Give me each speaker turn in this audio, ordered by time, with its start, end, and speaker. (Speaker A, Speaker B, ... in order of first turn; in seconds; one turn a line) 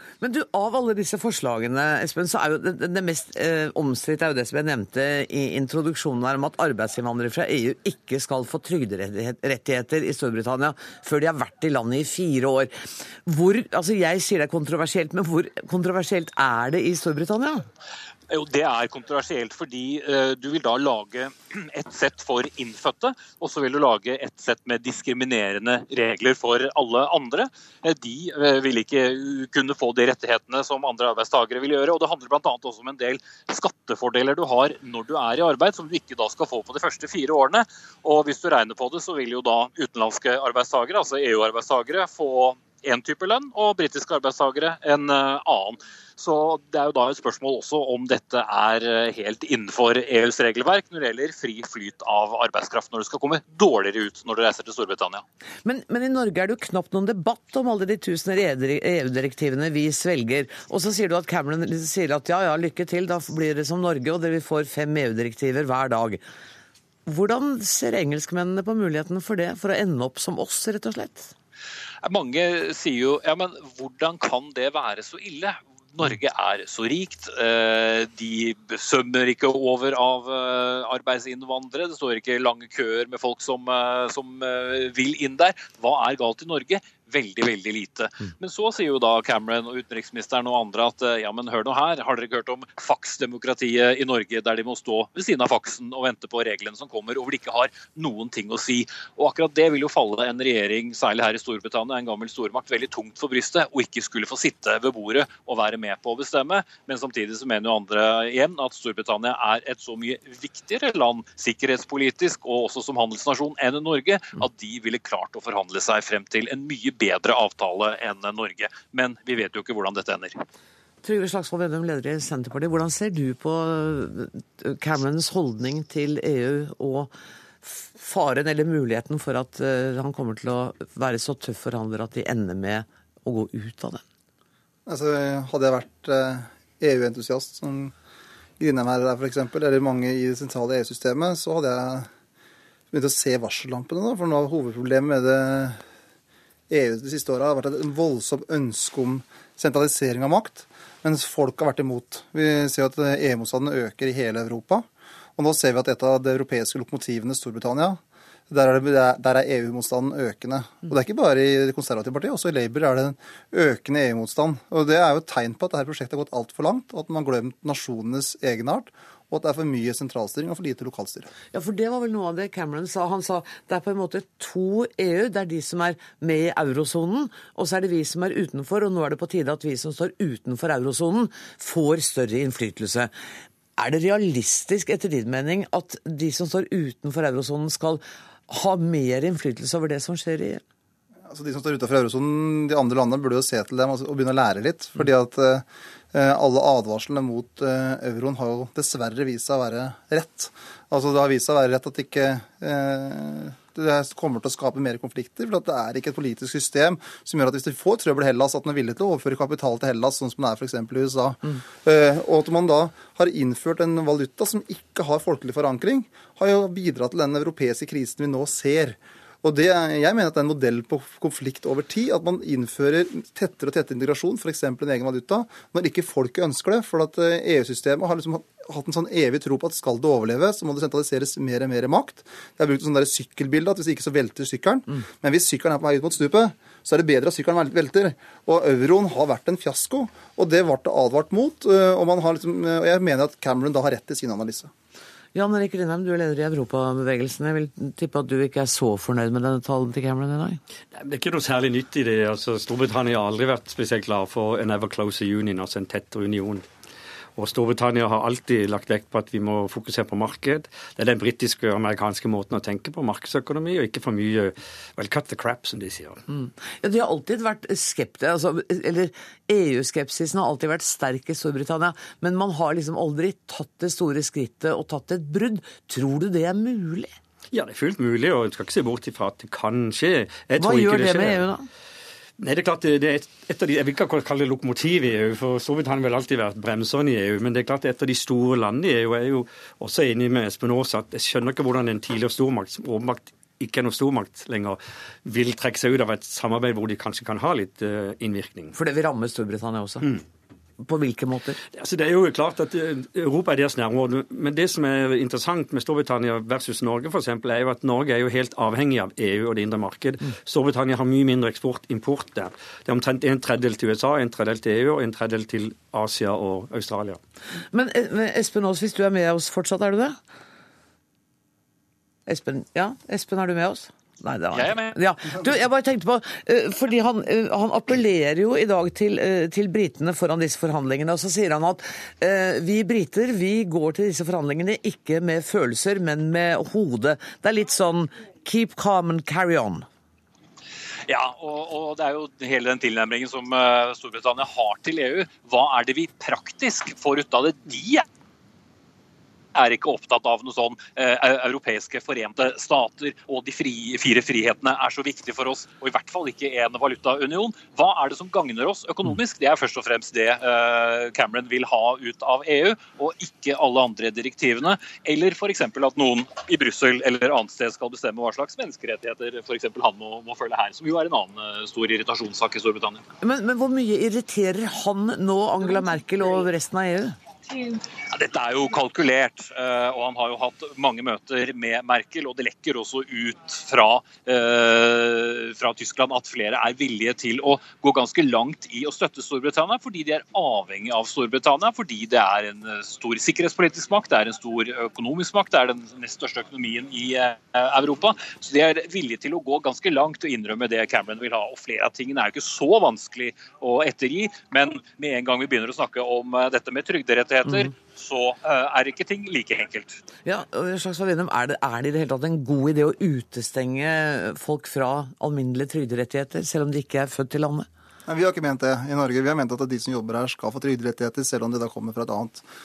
Speaker A: 0.2-17.7
Speaker B: 18.3-55.2
Speaker A: 55.6-66.2
Speaker A: 67.1-71.3
Speaker B: 72.0-120.4
Speaker A: 121.0-127.1
Speaker A: 127.6-134.0
Speaker C: 134.9-137.9
Speaker C: 138.6-142.1
Speaker C: 142.9-145.8
Speaker C: 146.7-171.3
Speaker A: 171.5-183.1
Speaker A: 183.8-190.6
Speaker C: 191.3-244.7
Speaker A: 245.3-250.6
Speaker D: 250.9-256.7
Speaker D: 257.4-266.2
Speaker A: 266.3-277.1
Speaker D: 277.5-281.5
Speaker A: 280.6-281.7
Speaker D: 282.4-298.7
Speaker A: 298.7-300.1
Speaker A: 300.8-301.6
Speaker D: 301.7-317.2
Speaker A: 317.7-320.2
Speaker A: 322.3-339.9
Speaker B: 324.5-325.0
Speaker B: 341.1-348.0
Speaker B: 349.6-373.0
Speaker A: 373.2-377.2
Speaker B: 378.1-410.0
Speaker A: 410.2-417.7
Speaker C: 418.1-422.4